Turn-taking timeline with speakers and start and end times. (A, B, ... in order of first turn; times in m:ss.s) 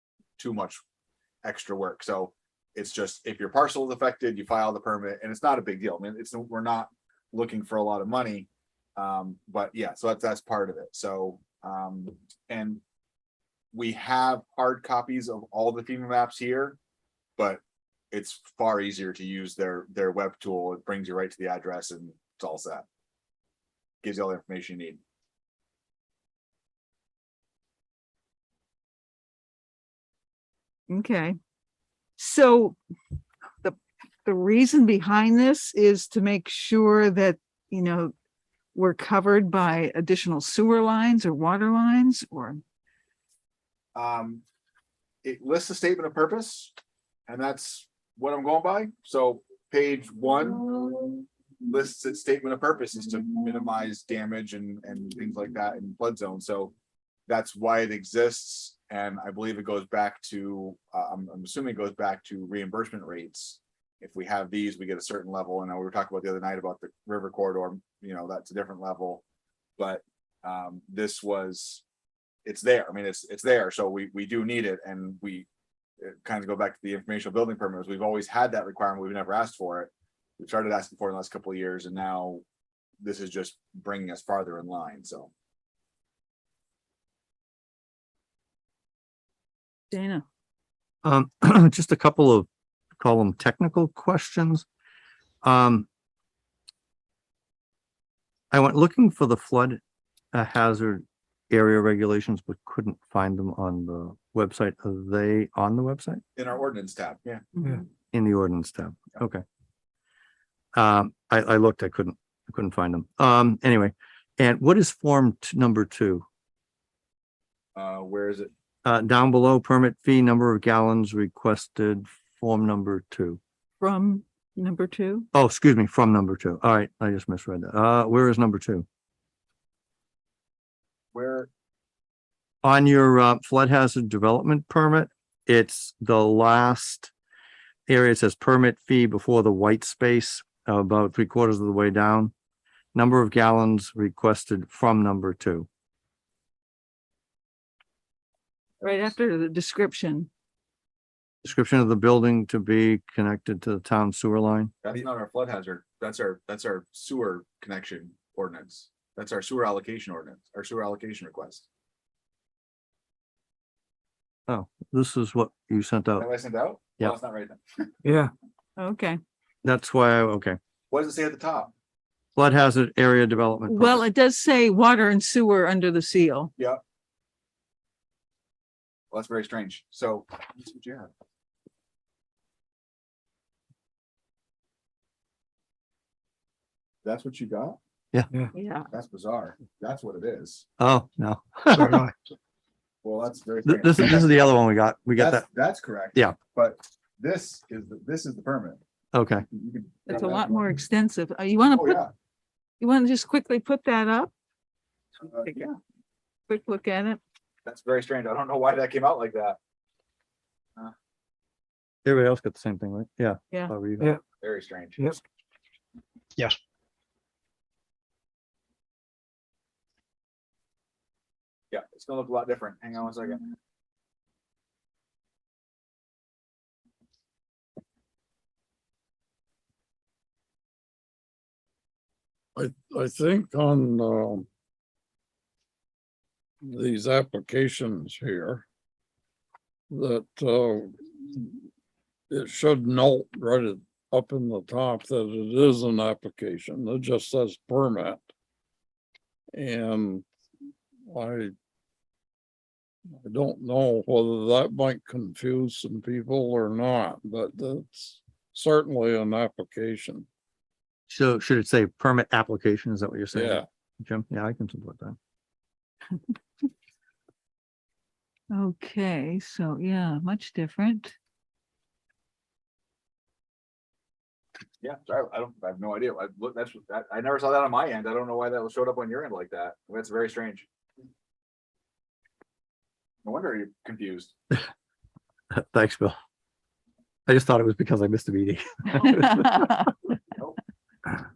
0:00.4-0:00.8 A
0:01.4-0:12.8 A
0:13.7-0:16.8 A
0:18.1-0:22.8 A
0:24.0-0:25.0 A
0:30.9-0:31.3 B
0:32.2-0:32.8 B
0:33.6-0:38.1 B
0:38.7-0:42.6 B
0:43.9-0:44.4 A
0:45.2-0:46.8 A
0:47.3-0:50.7 A
0:51.6-0:56.7 A
0:57.3-1:09.2 A
1:09.8-1:11.8 A
1:12.4-1:15.5 A
1:16.0-1:22.4 A
1:23.0-1:25.3 A
1:29.9-1:30.2 B
1:31.0-1:32.5 C
1:33.0-1:34.6 C
1:35.4-1:35.9 C
1:38.5-1:39.8 C
1:40.3-1:46.2 C
1:46.4-1:47.4 A
1:48.1-1:49.4 C
1:50.7-1:56.2 C
1:57.7-1:58.5 A
1:58.8-2:03.4 C
2:03.8-2:05.2 B
2:05.3-2:08.8 C
2:11.1-2:11.5 A
2:12.6-2:17.1 C
2:17.9-2:22.3 C
2:22.9-2:25.7 C
2:28.8-2:30.3 B
2:31.4-2:34.7 C
2:34.8-2:41.7 A
2:44.5-2:46.3 C
2:46.2-2:47.9 A
2:48.8-2:49.2 B
2:49.6-2:50.6 C
2:50.9-2:51.7 A
2:52.4-2:54.0 C
2:53.7-2:56.5 B
2:59.1-3:01.1 A
3:07.0-3:07.8 A
3:08.5-3:08.9 B
3:08.9-3:10.6 A
3:10.8-3:12.0 C
3:13.0-3:14.5 A
3:13.6-3:15.5 C
3:15.2-3:18.8 A
3:19.1-3:19.4 C
3:19.5-3:20.6 A
3:20.1-3:22.0 B
3:21.7-3:22.1 A
3:22.8-3:24.3 B
3:25.2-3:25.8 A
3:26.5-3:27.2 B
3:27.6-3:29.6 A
3:32.0-3:34.1 C
3:34.4-3:35.1 A
3:41.7-3:43.5 A
3:52.6-3:54.5 D
3:56.6-3:58.6 D
3:59.9-4:01.6 D
4:02.3-4:08.2 D
4:09.5-4:10.3 D
4:11.1-4:11.5 D
4:13.2-4:20.3 D
4:21.1-4:25.2 C
4:23.3-4:23.6 D
4:28.5-4:31.2 B
4:34.8-4:40.7 A
4:43.2-4:44.3 A
4:45.5-4:46.2 C
4:47.3-4:49.7 C
4:49.0-4:49.9 B